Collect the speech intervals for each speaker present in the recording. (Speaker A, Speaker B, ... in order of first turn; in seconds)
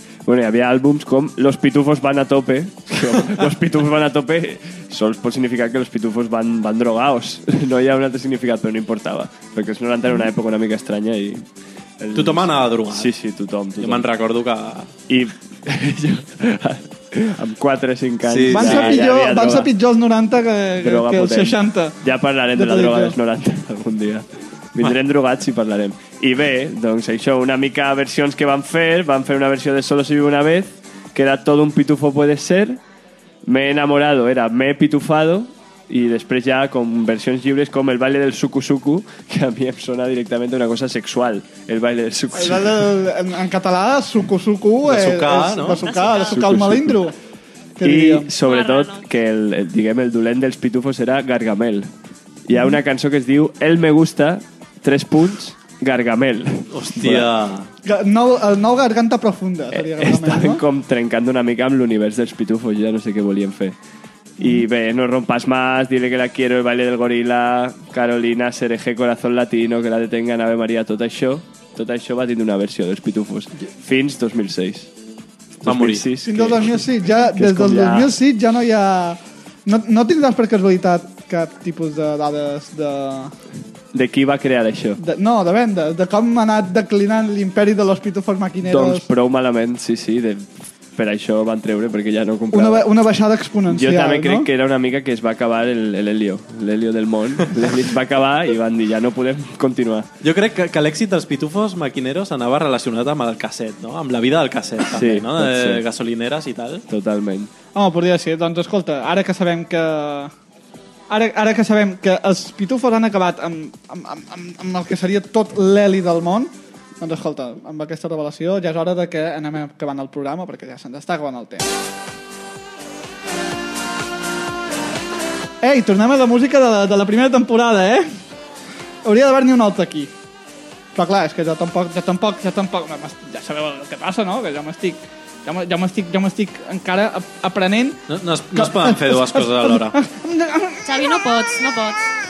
Speaker A: 0.2-11.4, 12.0-14.1, 15.1-19.7, 20.8-32.8, 33.5-42.9, 46.2-47.0, 47.8-51.9, 52.5-57.3, 59.7-63.8, 64.4-74.9, 75.6-78.1, 83.9-85.0, 88.7-92.9, 93.7-100.1, 104.9-105.8, 106.9-107.5
Speaker B: 12.1-13.1, 13.8-14.9, 18.2-19.0, 44.8-45.9, 56.7-57.7, 75.6-76.0, 100.2-106.8, 138.1-139.9
Speaker C: 18.5-22.0, 22.5-23.2, 42.3-47.1, 47.8-48.3, 52.5-52.8, 57.8-60.6, 64.4-64.6, 76.2-83.3, 85.0-89.1, 92.5-94.5, 107.8-110.3, 111.1-121.7, 125.6-128.1, 129.0-130.1, 130.9-138.0, 138.5-141.1
Speaker D: 45.8-46.4, 48.4-49.0, 140.8-142.1